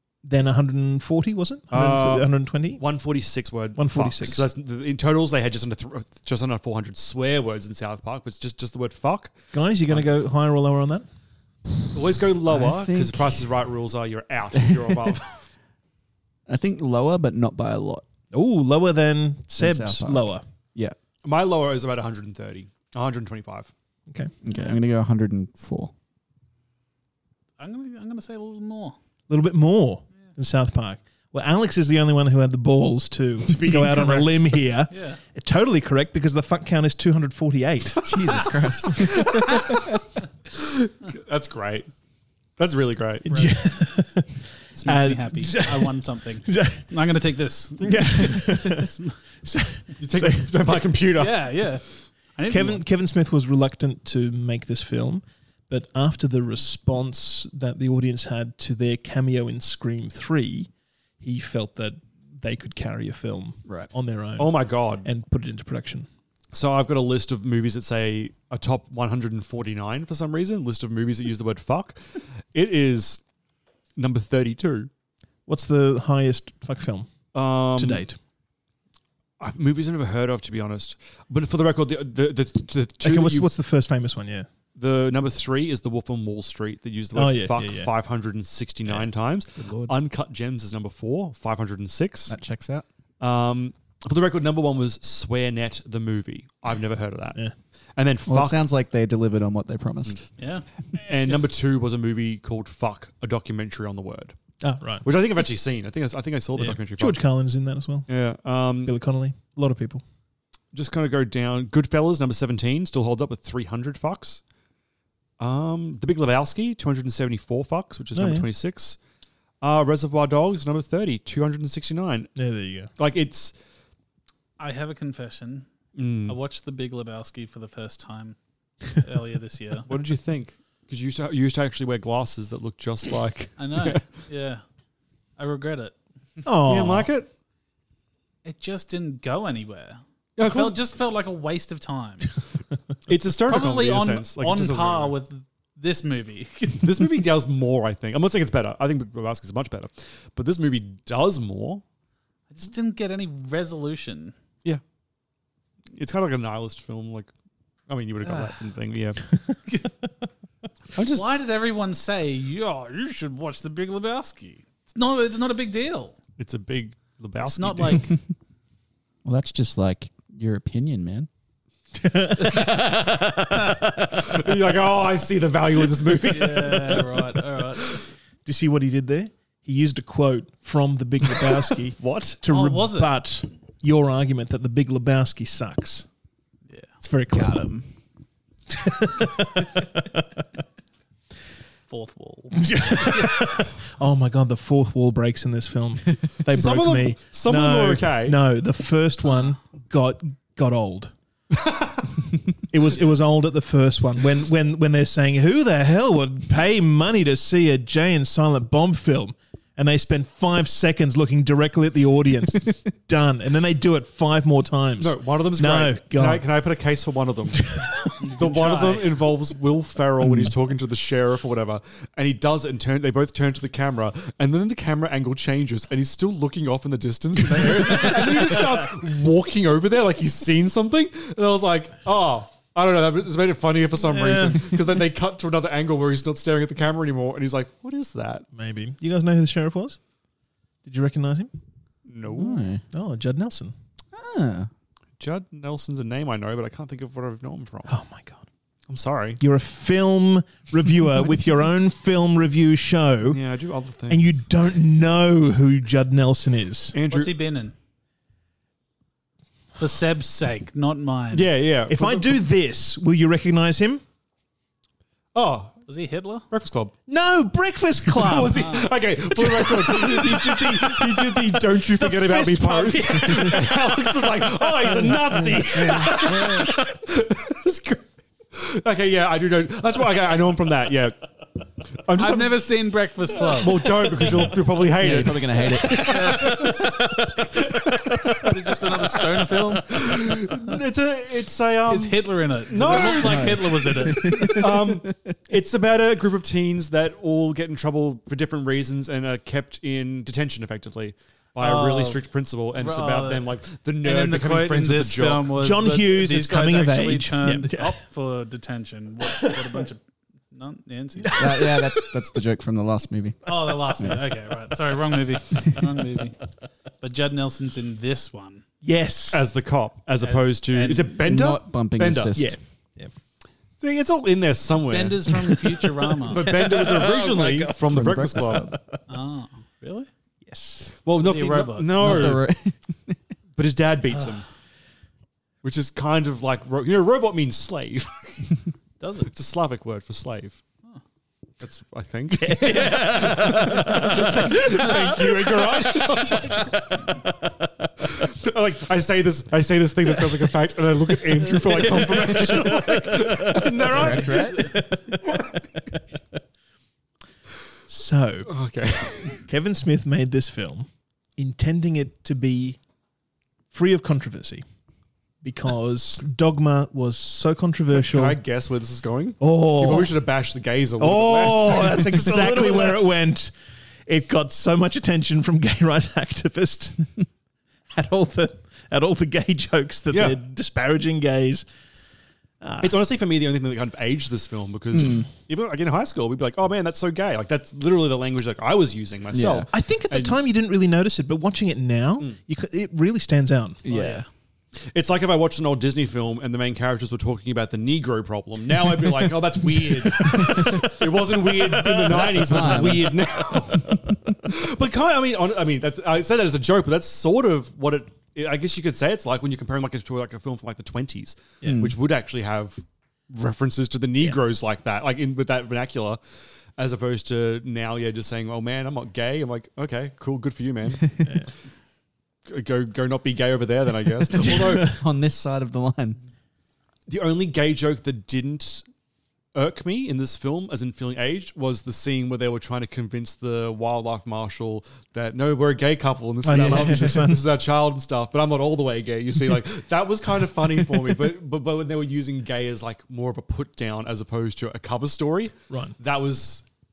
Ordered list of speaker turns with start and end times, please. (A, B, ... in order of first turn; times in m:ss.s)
0:00.2-0:02.8 A
0:01.7-0:09.4 B
0:03.8-0:04.5 A
0:09.5-0:11.1 A
0:11.9-0:15.4 B
0:12.5-0:13.5 C
0:14.6-0:15.0 C
0:16.5-0:18.0 C
0:18.3-0:20.4 A
0:19.6-0:21.0 C
0:21.2-0:23.7 B
0:24.4-0:25.9 C
0:27.6-0:29.0 D
0:29.3-0:38.1 A
0:33.5-0:34.6 B
0:34.9-0:35.2 D
0:38.0-0:39.5 C
0:40.6-0:41.9 B
0:42.6-0:43.3 B
0:43.3-0:43.6 D
0:43.3-0:46.9 A
0:44.8-0:49.2 D
0:47.8-0:48.9 A
0:49.4-0:50.8 A
0:50.0-0:51.5 B
0:51.2-0:52.8 D
0:52.5-1:00.7 A
1:01.2-1:06.1 A
1:04.4-1:05.1 B
1:06.5-1:13.2 B
1:14.0-1:14.9 B
1:15.5-1:18.2 A
1:17.3-1:18.1 B
1:19.4-1:23.5 B
1:23.0-1:24.5 A
1:24.8-1:32.4 B
1:27.1-1:27.9 A
1:29.6-1:29.9 C
1:32.3-1:32.9 C
1:33.2-1:37.4 B
1:38.0-1:38.7 B
1:38.3-1:40.3 C
1:40.4-1:40.7 D
1:40.9-1:44.4 B
1:44.6-1:45.1 A
1:45.0-1:47.2 B
1:46.6-1:48.1 A
1:48.1-1:49.0 B
1:48.8-1:50.0 A
1:50.7-1:54.4 B
1:55.4-1:59.0 B
1:58.1-1:58.5 A
1:59.6-2:02.3 B
2:02.4-2:02.9 A
2:03.0-2:03.5 B
2:04.6-2:05.7 D
2:06.0-2:06.4 B
2:06.3-2:08.4 D
2:08.9-2:09.9 D
2:09.9-2:14.2 B
2:13.6-2:14.6 D
2:15.4-2:16.0 D
2:16.4-2:17.1 A
2:16.7-2:17.3 B
2:18.4-2:22.3 D
2:20.4-2:20.8 B
2:23.1-2:25.1 B
2:23.5-2:26.8 D
2:26.8-2:31.8 B
2:32.5-2:34.3 D
2:35.9-2:37.3 B
2:37.9-2:39.2 B
2:38.2-2:38.5 D
2:41.0-2:41.3 B
2:41.1-2:46.2 D
2:46.4-2:48.1 B
2:47.4-2:48.1 D
2:49.2-2:51.3 C
2:52.0-2:52.8 A
2:54.2-2:57.0 B
2:56.3-2:58.0 D
2:58.4-3:06.1 A
3:02.0-3:02.4 B
3:02.5-3:03.2 D
3:07.0-3:07.7 A
3:07.3-3:07.9 C
3:08.7-3:10.2 A
3:11.9-3:13.6 D
3:12.6-3:21.1 A
3:16.5-3:18.4 B
3:22.7-3:36.5 A
3:35.0-3:37.7 B
3:38.2-3:39.2 D
3:38.4-3:58.4 B
3:47.7-3:48.1 D
3:54.0-3:54.7 A
3:58.5-4:00.0 A
4:00.8-4:01.5 A
4:02.1-4:02.6 B
4:02.3-4:02.8 C
4:02.9-4:03.8 A
4:04.1-4:04.7 C
4:05.2-4:07.9 B
4:07.9-4:08.5 A
4:08.9-4:09.4 B
4:09.4-4:13.4 A
4:13.3-4:14.4 B
4:14.1-4:17.0 A
4:16.9-4:17.4 B
4:17.1-4:17.8 D
4:19.8-4:21.5 D
4:21.3-4:22.4 B
4:21.9-4:24.0 A
4:25.3-4:25.8 B
4:25.9-4:26.5 D
4:26.5-4:27.0 B
4:27.1-4:36.6 A
4:28.2-4:38.0 B
4:28.5-4:28.8 D
4:36.0-4:36.6 C
4:38.5-4:41.2 B
4:42.0-4:42.6 B
4:42.2-4:43.9 D
4:43.6-4:47.2 B
4:45.0-4:46.6 C
4:46.1-4:46.4 D
4:47.9-4:48.5 B
4:48.4-4:50.0 D
4:49.7-4:53.7 B
4:51.9-4:54.6 D
4:53.1-4:55.3 C
4:54.4-5:05.5 B
5:01.6-5:02.2 D
5:02.8-5:03.5 D
5:04.0-5:11.4 D
5:05.5-5:08.0 A
5:09.3-5:09.6 A
5:11.2-5:12.2 A
5:11.4-5:14.2 C
5:13.5-5:16.4 D
5:17.0-5:18.6 D
5:18.8-5:19.5 A
5:19.3-5:22.4 B
5:20.2-5:21.1 D
5:21.2-5:22.6 C
5:22.4-5:23.1 A
5:23.8-5:25.3 B
5:24.9-5:26.4 D
5:26.3-5:28.7 B
5:26.4-5:27.7 A
5:27.9-5:28.8 C
5:28.5-5:28.8 A
5:29.1-5:30.1 D
5:30.5-5:31.0 A
5:31.0-5:32.4 B
5:31.2-5:32.1 D
5:32.0-5:33.2 C
5:33.6-5:34.5 B
5:35.6-5:38.5 B
5:39.0-5:39.3 D
5:39.3-5:40.6 B
5:41.6-5:47.0 B
5:42.3-5:46.0 A
5:48.0-5:54.5 B
5:51.8-5:55.4 A
5:53.8-5:54.8 C
5:54.5-5:54.7 D
5:57.9-5:58.5 A
5:58.5-5:59.4 B
5:59.4-6:02.8 A
6:03.7-6:04.6 A
6:05.4-6:08.4 A
6:07.9-6:13.2 B
6:09.4-6:10.2 A
6:11.0-6:13.5 A
6:14.1-6:17.1 A
6:17.9-6:21.7 A
6:20.1-6:20.4 B
6:22.6-6:23.0 A
6:22.8-6:30.4 B
6:24.9-6:25.3 C
6:29.3-6:29.7 C
6:29.7-6:33.8 A
6:33.8-6:34.2 C
6:33.9-6:34.3 D
6:34.9-6:56.2 B
6:39.9-6:43.1 A
6:40.2-6:40.9 C
6:42.3-6:43.2 C
6:51.6-6:52.0 C
6:56.8-7:01.0 B
7:02.5-7:05.0 B
7:04.4-7:06.2 C
7:07.1-7:08.8 B
7:09.6-7:26.6 B
7:16.4-7:17.5 A
7:16.5-7:17.0 C
7:25.7-7:26.0 A